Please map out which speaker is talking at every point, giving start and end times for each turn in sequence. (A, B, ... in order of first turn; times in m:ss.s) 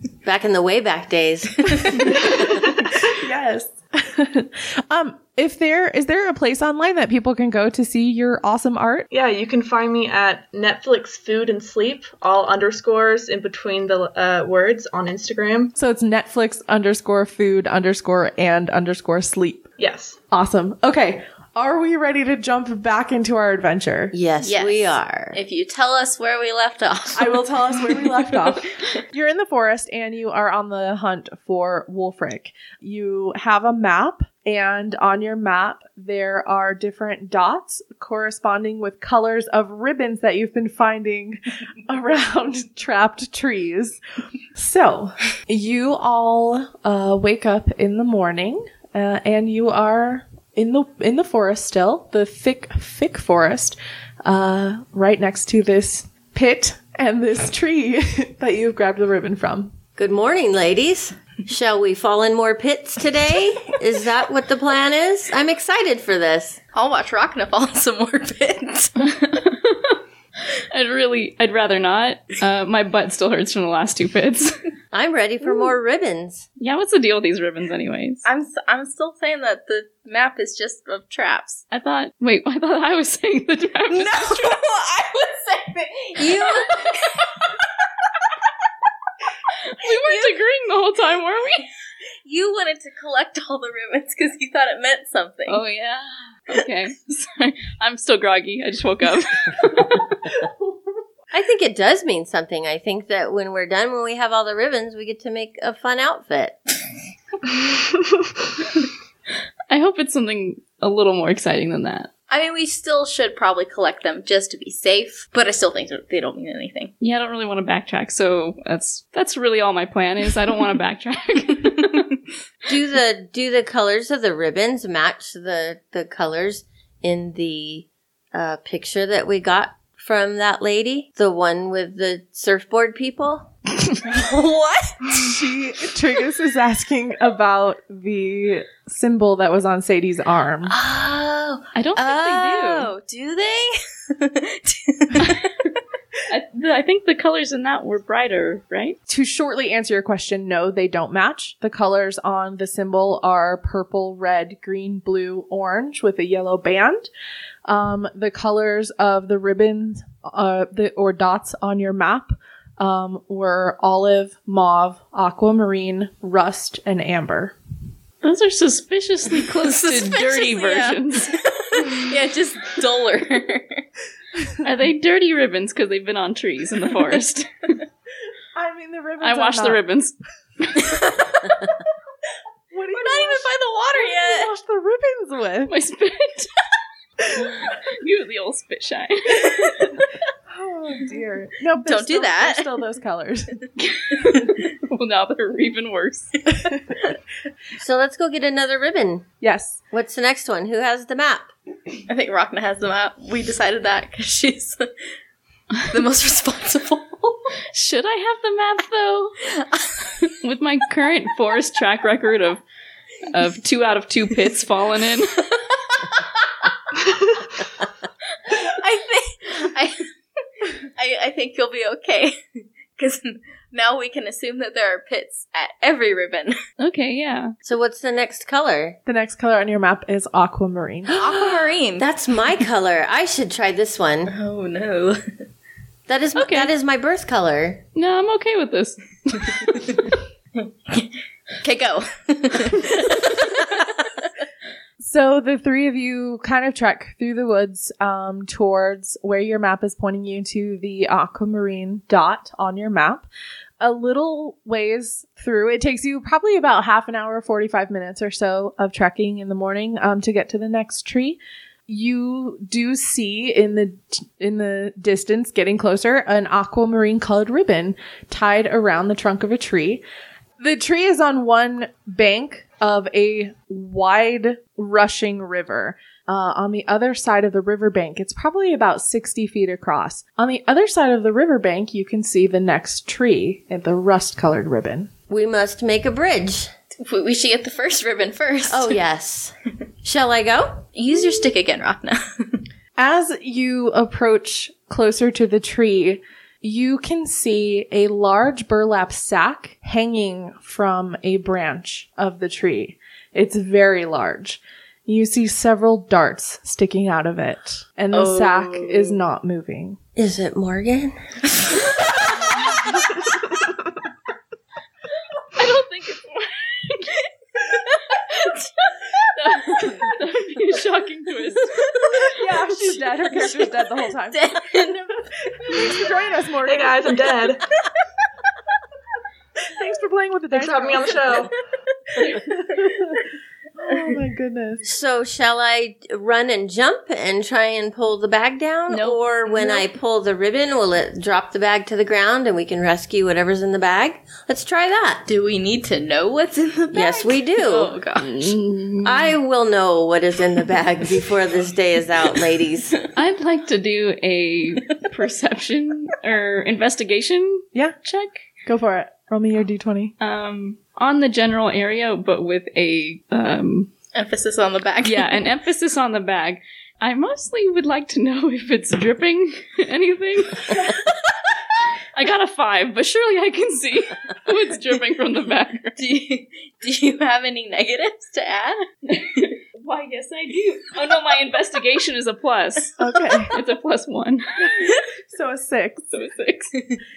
0:00.2-0:02.4 A
0:01.9-0:09.1 B
0:09.1-0:15.7 C
0:15.8-0:19.7 B
0:19.8-0:20.2 C
0:20.3-0:24.1 B
0:24.1-0:25.4 A
0:24.4-0:28.3 D
0:27.1-0:44.0 B
0:44.5-0:59.7 B
1:00.0-1:06.6 A
1:06.7-1:09.4 D
1:09.3-1:10.0 E
1:10.7-1:14.7 E
1:14.9-1:16.4 A
1:16.6-1:18.2 E
1:18.2-1:21.6 D
1:21.7-1:24.6 E
1:23.9-1:27.2 D
1:26.2-1:26.7 A
1:29.7-1:31.7 E
1:29.8-1:30.3 D
1:32.2-1:35.6 D
1:35.5-1:40.2 E
1:41.3-1:46.6 A
1:49.7-1:52.1 E
1:52.3-1:56.9 D
1:57.0-2:02.1 E
2:02.7-2:13.5 A
2:14.0-2:15.3 D
2:15.1-2:20.7 B
2:20.8-2:21.5 A
2:20.8-2:25.7 D
2:21.8-2:22.9 E
2:22.3-2:22.7 A
2:26.3-2:29.0 E
2:29.1-2:37.1 B
2:37.6-2:47.5 B
2:48.2-2:51.3 E
2:49.4-2:53.8 D
2:54.6-2:57.5 E
2:58.5-2:59.8 B
2:59.2-3:01.0 E
3:02.7-3:05.7 B
3:02.9-3:04.5 D
3:05.7-3:06.5 E
3:07.8-3:10.0 E
3:10.5-3:13.6 B
3:11.8-3:12.8 D
3:13.9-3:14.5 D
3:14.2-3:16.5 E
3:17.8-3:19.3 A
3:19.4-3:19.8 B
3:19.9-3:21.5 A
3:22.1-3:24.9 D
3:25.8-3:27.4 D
3:27.7-3:29.4 E
3:30.3-3:32.6 E
3:33.3-3:35.5 E
3:38.5-3:40.1 D
3:40.8-3:42.4 D
3:43.0-3:46.6 D
3:46.8-3:47.5 E
3:47.6-3:49.0 A
3:49.0-3:51.1 B
3:51.1-3:52.1 D
3:51.2-3:54.3 A
3:54.3-3:55.4 D
3:56.1-3:57.8 A
3:56.4-3:56.7 E
3:57.9-4:00.0 E
3:59.6-4:04.3 D
4:05.0-4:13.3 B
4:13.8-4:30.0 B
4:30.6-4:45.1 B
4:45.3-4:46.7 A
4:46.9-4:49.0 D
4:48.7-4:51.5 A
4:50.9-4:52.6 D
4:53.0-5:10.0 B
5:08.1-5:09.2 D
5:10.2-5:12.2 A
5:15.5-5:17.2 E
5:17.7-5:18.6 D
5:19.4-5:22.0 E
5:19.8-5:20.1 D
5:22.0-5:26.2 D
5:22.2-5:24.6 B
5:25.6-5:27.1 B
5:26.6-5:27.6 C
5:29.6-5:31.5 B
5:30.5-5:31.5 C
5:32.3-5:33.2 B
5:33.8-5:34.8 B
5:34.8-5:45.2 A
5:38.9-5:39.9 D
5:45.3-5:48.5 D
5:46.9-5:47.9 A
5:48.2-5:49.3 E
5:49.0-5:53.0 A
5:53.1-5:58.4 E
5:58.6-6:00.1 B
6:00.2-6:03.9 E
6:04.1-6:05.4 D
6:05.0-6:11.2 E
6:12.1-6:16.0 E
6:16.0-6:18.8 D
6:19.1-6:23.0 E
6:23.0-6:23.5 B
6:23.5-6:24.9 E
6:25.3-6:26.0 B
6:26.1-6:26.7 E